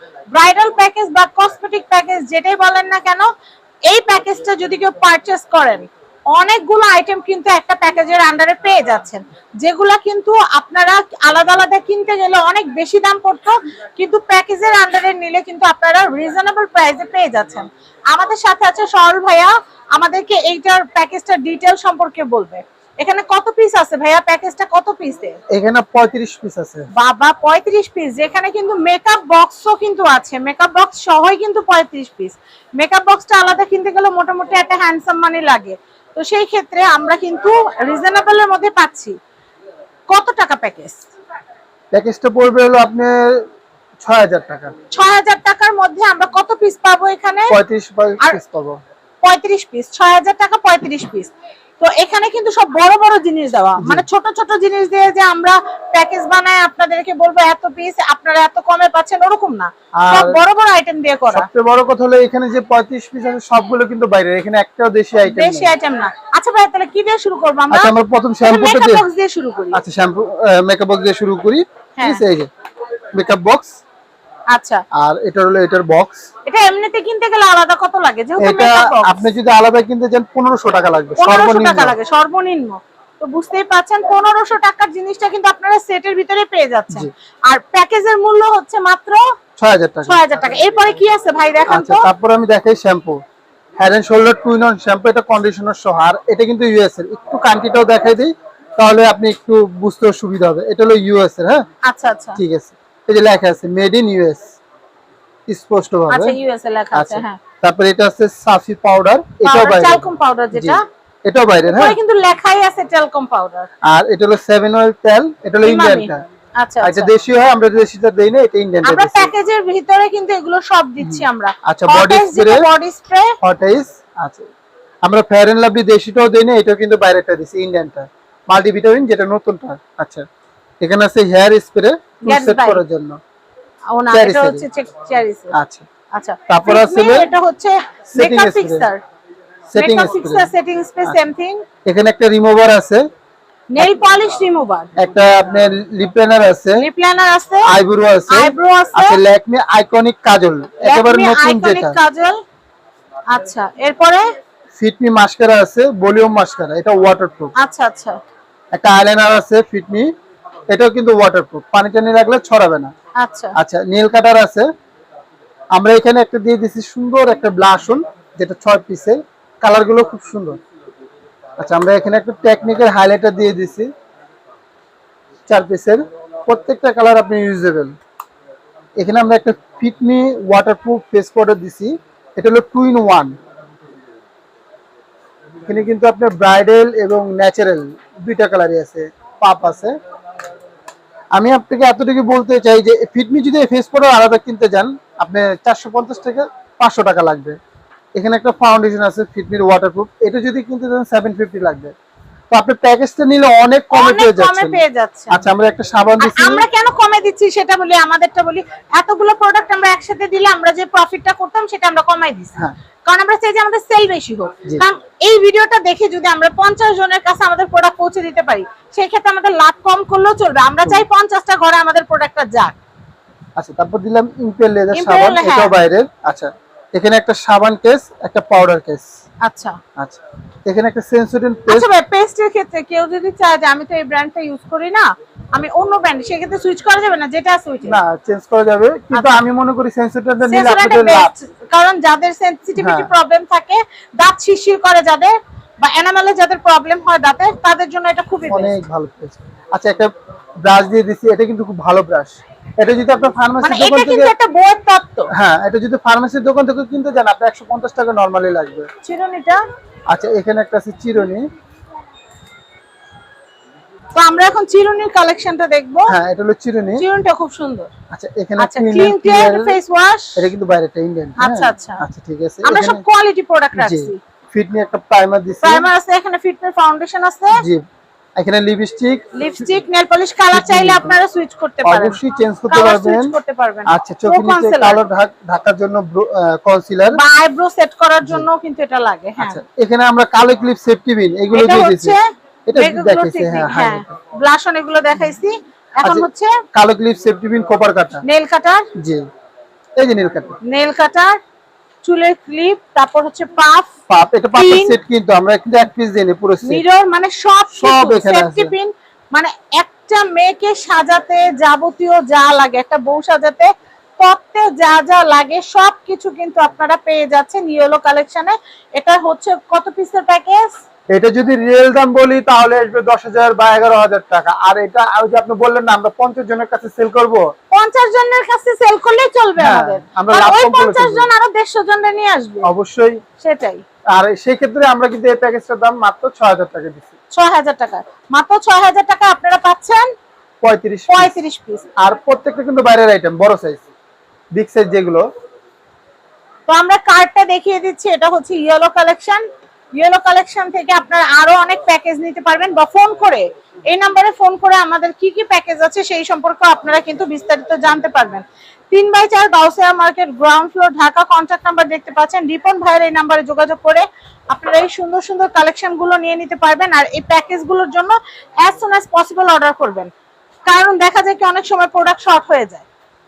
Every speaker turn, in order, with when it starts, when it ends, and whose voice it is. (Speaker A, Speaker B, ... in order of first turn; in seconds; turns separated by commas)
Speaker A: 0.3-3.3, Speaker A: 3.9-25.4, Speaker B: 25.5-26.9, Speaker A: 26.9-39.1, Speaker A: 40.1-41.1, Speaker B: 41.9-43.4, Speaker B: 44.0-44.7, Speaker A: 44.9-47.5, Speaker B: 47.5-48.8, Speaker A: 49.2-61.5, Speaker B: 53.8-54.0, Speaker B: 60.0-60.4, Speaker B: 61.3-65.7, Speaker A: 65.2-69.8, Speaker B: 67.7-69.0, Speaker B: 69.7-72.5, Speaker A: 72.0-72.2, Speaker B: 73.1-73.7, Speaker A: 74.5-74.8, Speaker B: 74.9-76.3, Speaker A: 76.5-79.2, Speaker B: 78.4-82.0, Speaker A: 81.2-89.2, Speaker B: 89.6-90.2, Speaker A: 90.0-92.1, Speaker B: 91.7-93.2, Speaker B: 93.8-101.6, Speaker A: 101.8-102.4, Speaker B: 102.4-104.6, Speaker B: 105.5-106.3, Speaker A: 106.1-107.4, Speaker B: 106.9-110.0, Speaker A: 109.4-110.8, Speaker B: 110.5-112.0, Speaker A: 111.7-113.7, Speaker B: 113.8-116.2, Speaker A: 115.6-117.1, Speaker B: 116.8-119.3, Speaker A: 118.8-123.3, Speaker B: 121.0-122.7, Speaker B: 123.4-124.5, Speaker B: 125.0-130.2, Speaker B: 130.8-133.2, Speaker A: 132.2-132.8, Speaker A: 133.9-135.5, Speaker B: 134.1-134.6, Speaker B: 135.5-135.8, Speaker A: 136.1-139.0, Speaker B: 136.5-137.3, Speaker B: 138.1-138.9, Speaker B: 139.7-140.5, Speaker A: 139.7-141.6, Speaker B: 141.8-143.0, Speaker A: 143.7-144.9, Speaker B: 145.0-146.9, Speaker A: 146.8-147.8, Speaker B: 147.7-152.0, Speaker A: 148.3-149.2, Speaker A: 150.8-152.4, Speaker A: 153.3-154.2, Speaker B: 154.8-157.5, Speaker A: 157.6-158.2, Speaker B: 158.7-160.1, Speaker B: 160.7-162.9, Speaker A: 163.2-163.6, Speaker B: 163.6-164.7, Speaker B: 165.7-170.6, Speaker B: 171.6-173.9, Speaker B: 175.5-177.9, Speaker B: 179.0-183.3, Speaker B: 185.7-189.9, Speaker B: 191.3-197.6, Speaker B: 198.2-201.9, Speaker B: 202.5-206.7, Speaker A: 203.9-205.4, Speaker A: 206.2-222.7, Speaker B: 223.6-229.1, Speaker A: 224.9-225.7, Speaker A: 229.4-229.8, Speaker B: 230.0-231.9, Speaker A: 231.7-238.0, Speaker B: 237.9-241.3, Speaker A: 240.5-248.8, Speaker B: 242.8-243.1, Speaker B: 248.5-250.1, Speaker B: 250.6-254.3, Speaker A: 253.6-255.3, Speaker B: 255.3-258.9, Speaker A: 259.0-259.6, Speaker B: 260.1-261.4, Speaker A: 264.1-266.1, Speaker B: 266.1-267.0, Speaker A: 267.0-267.9, Speaker B: 268.1-269.8, Speaker A: 268.6-270.5, Speaker B: 270.4-273.0, Speaker A: 271.4-272.0, Speaker A: 272.6-274.2, Speaker B: 273.7-275.9, Speaker A: 275.6-277.6, Speaker B: 277.6-277.8, Speaker B: 278.4-279.3, Speaker A: 279.3-282.2, Speaker B: 280.5-281.2, Speaker B: 281.8-283.3, Speaker A: 282.7-285.0, Speaker B: 283.9-287.2, Speaker A: 287.1-289.6, Speaker B: 289.4-292.1, Speaker A: 291.5-296.6, Speaker B: 292.7-294.1, Speaker B: 296.0-298.2, Speaker A: 298.2-298.9, Speaker B: 299.0-299.2, Speaker B: 300.0-300.6, Speaker A: 300.6-301.4, Speaker A: 302.0-303.9, Speaker B: 304.1-306.8, Speaker A: 304.5-305.0, Speaker A: 306.6-320.7, Speaker B: 307.7-308.7, Speaker B: 321.1-327.4, Speaker A: 327.7-332.7, Speaker B: 329.6-331.3, Speaker B: 332.6-333.2, Speaker A: 333.4-333.8, Speaker B: 334.1-337.1, Speaker A: 337.3-340.1, Speaker B: 340.6-341.3, Speaker A: 341.1-341.8, Speaker B: 342.0-343.8, Speaker B: 344.5-345.2, Speaker A: 346.7-349.4, Speaker A: 349.9-370.1, Speaker A: 370.7-372.9